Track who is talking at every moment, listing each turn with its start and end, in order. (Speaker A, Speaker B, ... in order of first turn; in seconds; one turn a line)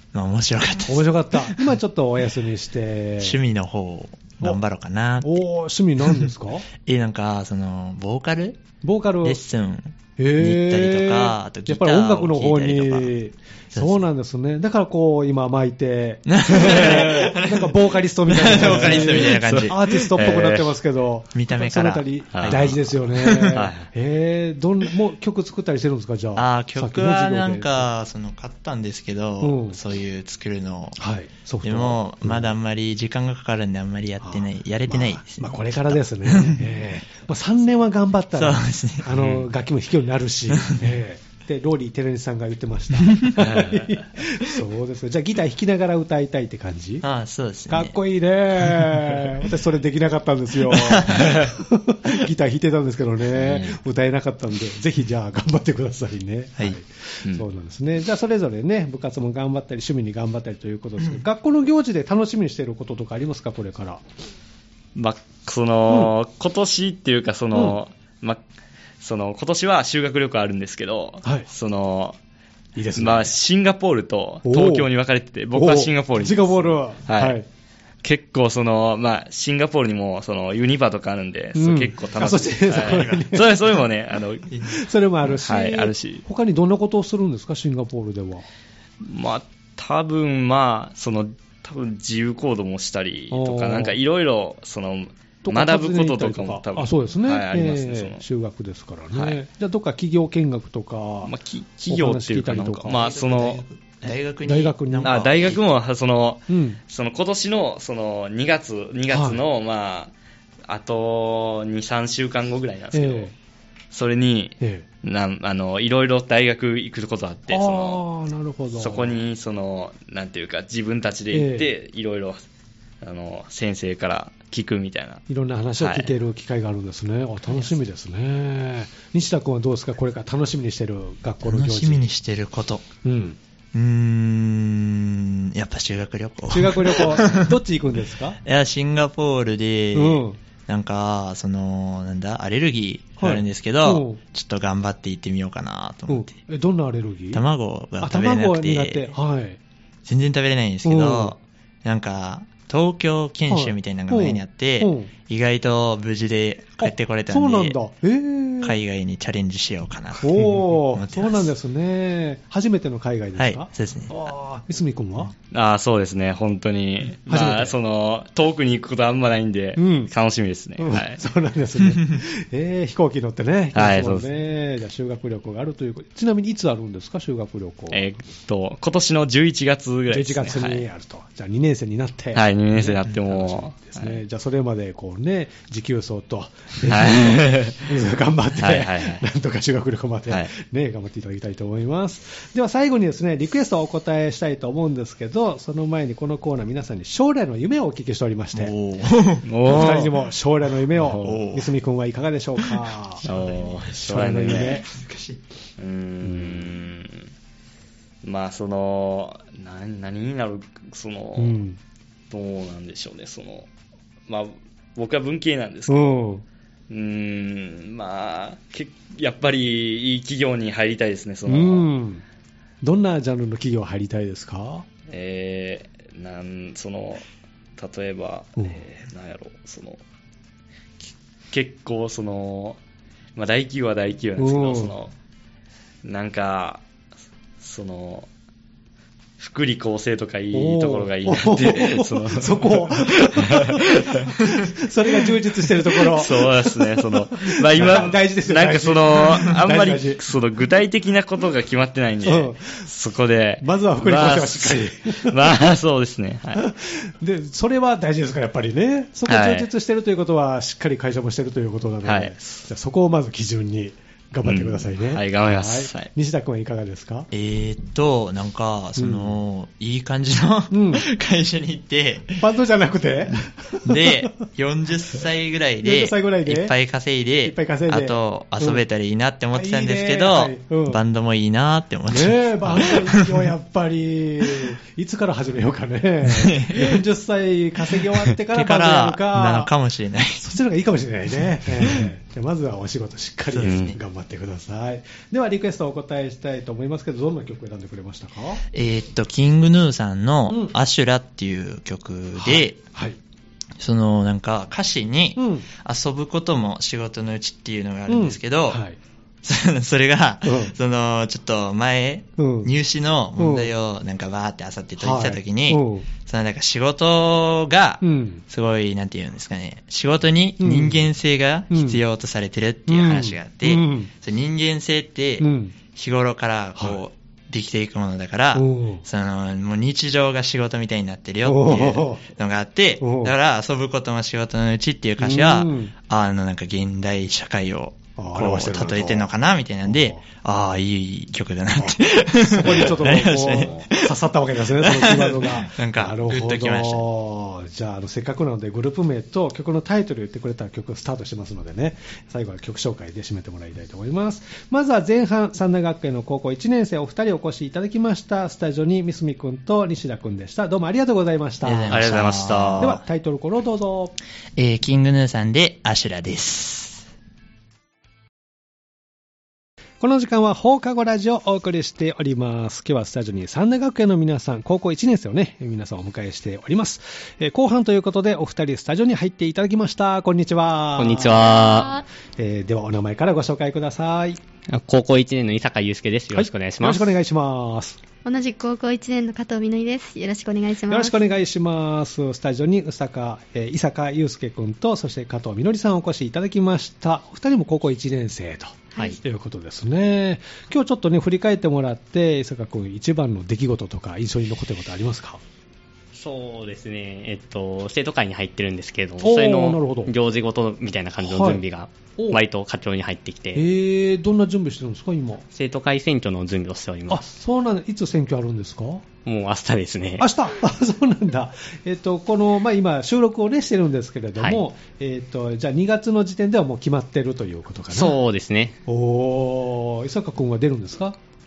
Speaker A: 0.1-1.7
Speaker B: 0.8-3.4
Speaker A: 3.2-5.4
Speaker B: 5.2-6.7
Speaker A: 6.0-8.6
Speaker B: 8.8-9.4
Speaker A: 9.2-13.1
Speaker B: 10.2-27.9
Speaker A: 13.7-14.1
Speaker A: 16.3-20.2
Speaker C: 16.5-17.3
Speaker C: 18.4-20.7
Speaker A: 21.3-23.6
Speaker C: 22.3-22.7
Speaker C: 23.3-23.9
Speaker A: 26.4-31.0
Speaker B: 29.4-29.8
Speaker B: 31.0-32.6
Speaker A: 31.6-36.8
Speaker B: 34.2-47.1
Speaker A: 38.3-39.1
Speaker C: 39.1-39.5
Speaker A: 40.5-40.9
Speaker A: 43.1-43.4
Speaker C: 43.4-44.1
Speaker A: 47.0-48.0
Speaker B: 47.7-64.0
Speaker A: 50.7-51.4
Speaker C: 53.3-53.8
Speaker C: 65.0-68.4
Speaker B: 65.9-66.1
Speaker B: 67.5-67.8
Speaker C: 69.0-72.2
Speaker B: 72.8-73.4
Speaker C: 73.0-77.4
Speaker B: 74.5-74.9
Speaker B: 75.5-77.5
Speaker C: 78.0-84.5
Speaker B: 81.5-83.5
Speaker A: 82.7-83.8
Speaker B: 84.7-88.5
Speaker C: 85.2-86.2
Speaker C: 89.0-98.2
Speaker B: 93.3-94.0
Speaker B: 95.4-101.3
Speaker C: 99.1-99.4
Speaker C: 101.2-103.6
Speaker B: 101.9-103.0
Speaker A: 102.9-105.6
Speaker B: 104.5-105.2
Speaker C: 105.0-110.1
Speaker B: 106.5-106.8
Speaker B: 109.1-109.4
Speaker C: 110.7-113.3
Speaker B: 112.9-113.3
Speaker C: 113.9-118.0
Speaker B: 114.6-114.8
Speaker B: 117.5-119.2
Speaker C: 118.8-122.4
Speaker B: 121.3-121.7
Speaker C: 123.0-125.2
Speaker B: 125.3-132.1
Speaker C: 125.8-126.1
Speaker C: 127.5-127.7
Speaker A: 131.4-132.9
Speaker B: 133.0-133.4
Speaker A: 133.7-137.5
Speaker B: 136.5-138.4
Speaker A: 138.4-146.4
Speaker B: 139.9-140.4
Speaker B: 143.2-144.2
Speaker B: 146.1-147.4
Speaker A: 147.3-149.1
Speaker B: 148.0-149.6
Speaker A: 150.0-157.8
Speaker B: 150.8-151.3
Speaker B: 153.5-155.1
Speaker B: 156.8-158.8
Speaker A: 158.6-161.5
Speaker B: 160.2-165.3
Speaker A: 163.4-164.1
Speaker C: 165.5-171.2
Speaker B: 167.2-167.8
Speaker B: 169.8-170.1
Speaker B: 170.8-178.1
Speaker C: 173.7-174.3
Speaker C: 177.9-180.8
Speaker B: 180.1-198.7
Speaker C: 182.3-184.2
Speaker C: 186.8-187.9
Speaker C: 188.6-189.2
Speaker A: 198.5-200.0
Speaker C: 199.4-200.1
Speaker B: 199.6-203.2
Speaker C: 201.0-201.2
Speaker A: 201.2-201.7
Speaker A: 202.6-205.4
Speaker C: 203.2-204.8
Speaker B: 204.0-204.8
Speaker C: 205.8-207.3
Speaker B: 206.2-206.8
Speaker C: 208.2-211.6
Speaker B: 211.4-211.8
Speaker C: 212.3-213.7
Speaker C: 214.3-216.2
Speaker B: 215.9-216.4
Speaker C: 216.9-221.9
Speaker B: 221.5-222.2
Speaker B: 222.8-224.9
Speaker C: 225.1-227.2
Speaker C: 227.8-230.0
Speaker B: 228.6-228.8
Speaker C: 231.0-232.8
Speaker C: 233.4-235.1
Speaker B: 234.4-234.9
Speaker C: 236.0-236.8
Speaker C: 237.6-238.3
Speaker C: 239.4-244.5
Speaker B: 240.5-250.2
Speaker C: 245.2-256.7
Speaker B: 252.2-252.9
Speaker B: 253.6-255.4
Speaker B: 256.6-267.3
Speaker C: 259.3-259.7
Speaker C: 262.0-262.6
Speaker C: 264.4-266.1
Speaker A: 267.3-272.4
Speaker B: 269.0-269.4
Speaker B: 270.7-271.1
Speaker B: 272.4-274.5
Speaker A: 273.8-283.5
Speaker B: 275.8-276.8
Speaker B: 277.4-278.8
Speaker B: 279.5-281.0
Speaker B: 282.1-289.7
Speaker A: 286.3-286.9
Speaker A: 288.4-290.5
Speaker B: 290.4-298.6
Speaker A: 291.8-292.1
Speaker C: 293.5-294.0
Speaker A: 298.7-302.8
Speaker B: 300.5-300.8
Speaker B: 302.4-303.2
Speaker A: 303.8-308.8
Speaker B: 305.4-305.7
Speaker B: 308.1-309.0
Speaker A: 309.4-344.1
Speaker B: 310.4-310.7
Speaker B: 312.4-312.7
Speaker B: 313.4-313.7
Speaker B: 315.0-316.1
Speaker B: 318.0-318.4
Speaker B: 320.6-321.1
Speaker B: 321.7-322.0
Speaker B: 322.9-324.1
Speaker B: 325.4-325.8
Speaker B: 328.6-329.1
Speaker B: 331.4-332.2
Speaker B: 333.0-333.4
Speaker B: 335.2-335.9
Speaker B: 338.2-339.3
Speaker B: 339.9-340.2
Speaker B: 341.8-362.1
Speaker A: 344.8-347.1
Speaker A: 361.6-363.0
Speaker C: 361.9-362.9
Speaker B: 362.8-364.1
Speaker A: 364.6-367.1
Speaker B: 370.0-381.7
Speaker D: 381.0-381.9
Speaker E: 381.4-382.0
Speaker B: 382.4-384.4
Speaker D: 384.7-387.1
Speaker B: 386.3-388.0
Speaker E: 388.2-391.2
Speaker B: 390.9-405.4
Speaker E: 398.9-399.2
Speaker D: 406.1-413.6
Speaker B: 409.2-410.1
Speaker B: 411.2-411.6
Speaker B: 412.2-412.4
Speaker B: 413.5-415.4
Speaker D: 415.5-417.2
Speaker B: 417.1-419.0
Speaker D: 419.2-420.3
Speaker B: 420.2-428.2
Speaker D: 424.4-424.6
Speaker D: 427.9-428.8
Speaker B: 428.9-431.2